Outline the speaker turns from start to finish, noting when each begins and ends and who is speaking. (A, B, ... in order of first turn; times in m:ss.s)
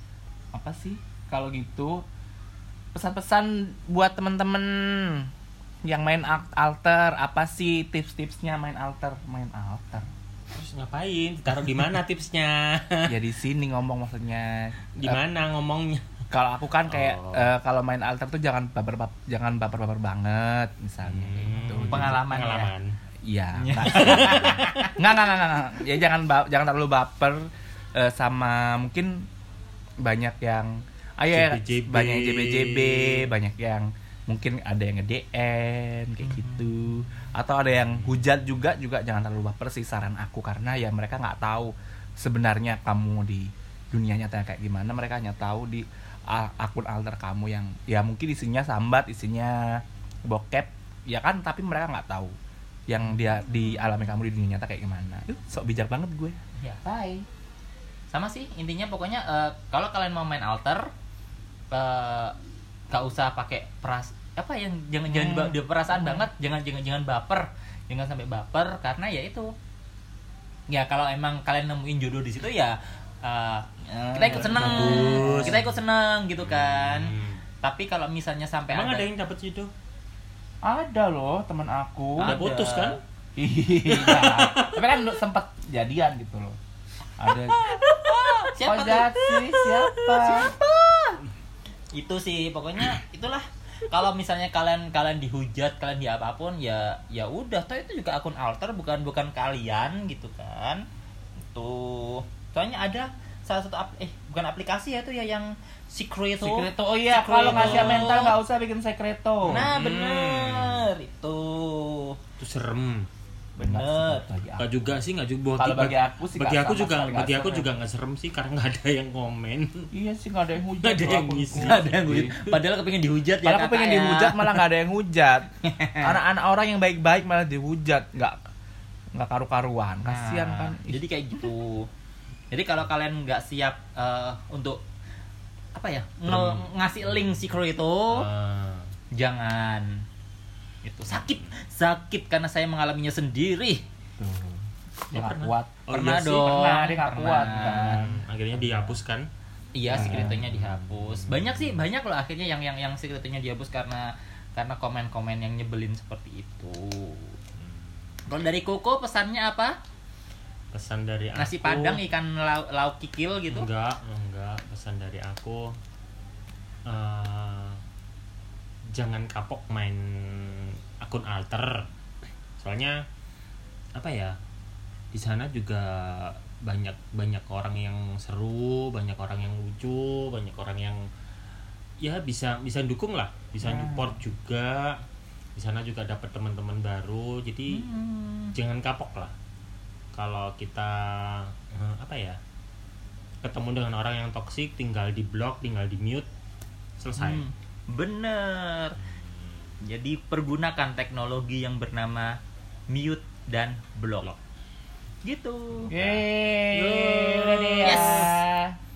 0:00.5-0:02.0 A
0:02.9-0:05.3 A
0:05.8-0:10.1 A
0:10.5-0:13.2 B
0:13.1-0:15.2 A
0:15.0-0:16.0 B
0:16.3-0:22.7 A
0:16.9-0:17.5 B
0:21.0-0:22.9 B
0:21.9-0:22.5 C
0:23.2-0:29.3 A
0:23.7-0:24.9 C
0:23.7-0:24.9 B
0:30.0-0:52.3 A
0:31.3-0:33.3 B
0:36.2-0:36.6 C
0:52.9-0:56.4 A
0:56.6-0:57.2 C
0:58.1-1:00.9 C
1:01.7-1:02.4 C
1:02.9-1:09.5 C
1:05.1-1:06.3 A
1:10.7-1:19.1 C
1:13.9-1:15.6 A
1:14.4-1:15.6 B
1:16.4-1:17.4 B
1:18.7-1:19.7 B
1:20.6-1:22.4 A
1:22.2-1:23.0 C
1:22.2-1:23.0 B
1:23.4-1:26.6 A
1:23.9-1:24.9 B
1:27.2-1:30.6 A
1:27.6-1:31.2 C
1:31.9-1:40.8 C
1:41.5-1:48.4 C
1:46.4-1:49.7 A
1:47.4-1:48.1 B
1:49.5-1:52.2 C
1:49.6-1:50.9 B
1:52.4-1:53.1 B
1:53.6-1:54.7 A
1:53.6-1:54.2 C
1:54.6-1:59.9 B
1:55.6-1:57.7 A
1:59.9-2:02.4 A
2:00.8-2:02.6 B
2:01.6-2:04.5 C
2:03.4-2:05.5 A
2:05.6-2:06.1 C
2:06.0-2:08.4 A
2:09.1-2:11.0 A
2:10.0-2:11.9 C
2:12.5-2:14.8 C
2:15.7-2:18.3 C
2:16.2-2:17.4 B
2:18.1-2:18.9 B
2:19.1-2:20.0 C
2:20.8-2:23.8 C
2:21.1-2:21.4 B
2:24.2-2:29.0 A
2:25.1-2:26.7 B
2:25.9-2:28.0 C
2:27.4-2:29.3 B
2:29.7-2:37.3 C
2:29.9-2:30.4 A
2:29.9-2:31.8 B
2:37.6-2:38.2 B
2:38.3-2:39.8 C
2:40.7-2:42.0 B
2:41.4-2:43.7 C
2:43.5-2:45.8 B
2:46.8-2:47.8 B
2:48.9-2:51.9 B
2:52.6-2:53.0 B
2:53.9-2:54.4 B
2:55.1-3:01.0 B
3:02.0-3:05.0 B
3:03.7-3:04.1 A
3:05.6-3:07.8 B
3:07.7-3:08.5 C
3:08.5-3:09.3 B
3:10.1-3:12.4 B
3:13.4-3:16.3 B
3:17.0-3:17.4 B
3:17.1-3:19.0 C
3:19.0-3:19.8 B
3:19.8-3:22.4 C
3:22.9-3:24.3 C
3:25.2-3:25.9 C
3:25.8-3:28.3 B
3:25.9-3:28.7 A
3:27.8-3:28.4 C